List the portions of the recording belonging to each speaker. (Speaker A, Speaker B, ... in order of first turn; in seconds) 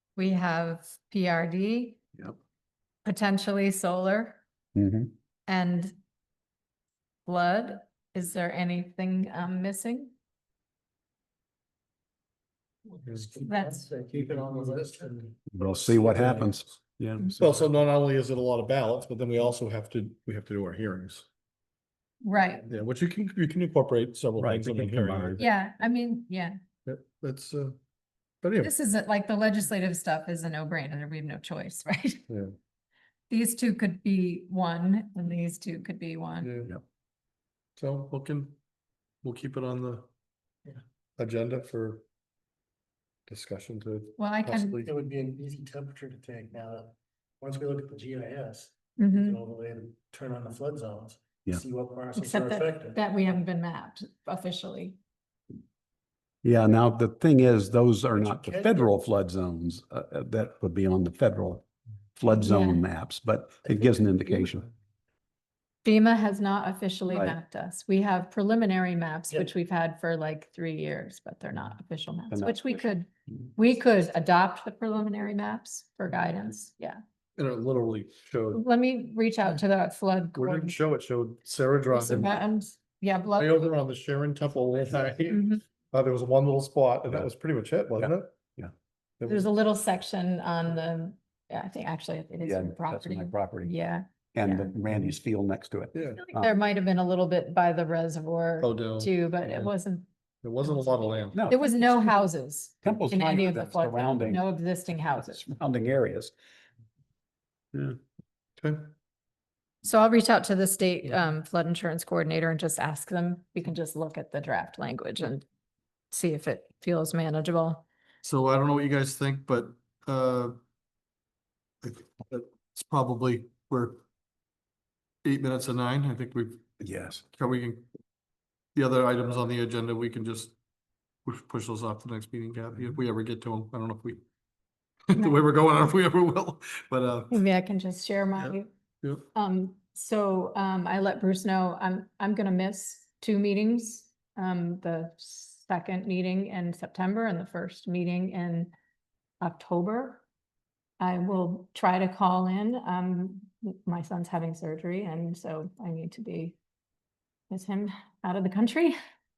Speaker A: 0.1-2.0, 3.0-4.4, 5.5-5.9, 7.2-10.1, 13.4-13.9, 22.2-22.7, 25.4-26.6, 28.6-32.3, 33.3-36.5, 44.2-44.8, 49.0-49.4, 52.1-55.0, 62.3-62.8, 65.8-77.0, 78.5-80.8, 81.9-83.6, 85.3-85.6, 89.2-94.7, 96.3-100.0, 100.6-105.5, 109.8-115.4, 116.1-117.8, 137.3-138.7, 139.3-148.7, 149.4-150.2, 151.0-156.6, 157.5-158.9
Speaker B: 4.7-5.1, 15.5-17.6, 24.4-25.4, 56.4-61.6, 62.2-64.7, 72.3-72.9, 92.4-93.7, 94.3-96.5, 101.3-102.3, 102.8-104.4, 105.2-106.3, 126.8-127.2
Speaker C: 12.9-16.1, 44.8-53.0, 58.1-59.0
Speaker D: 16.2-16.5, 17.4-21.3, 22.7-25.4, 26.8-27.8, 28.4-28.7, 36.4-36.7, 37.8-38.5, 39.2-40.1, 41.2-42.0, 43.3-44.9, 77.4-78.6, 80.3-82.5, 83.3-88.4, 89.2-89.5, 95.9-96.2, 98.6-99.7, 100.4-101.5, 108.6-108.9, 118.2-120.6, 121.8-124.0, 125.2-126.7, 127.2-127.9, 128.7-130.5, 131.2-134.2, 135.1-137.4, 138.4-139.2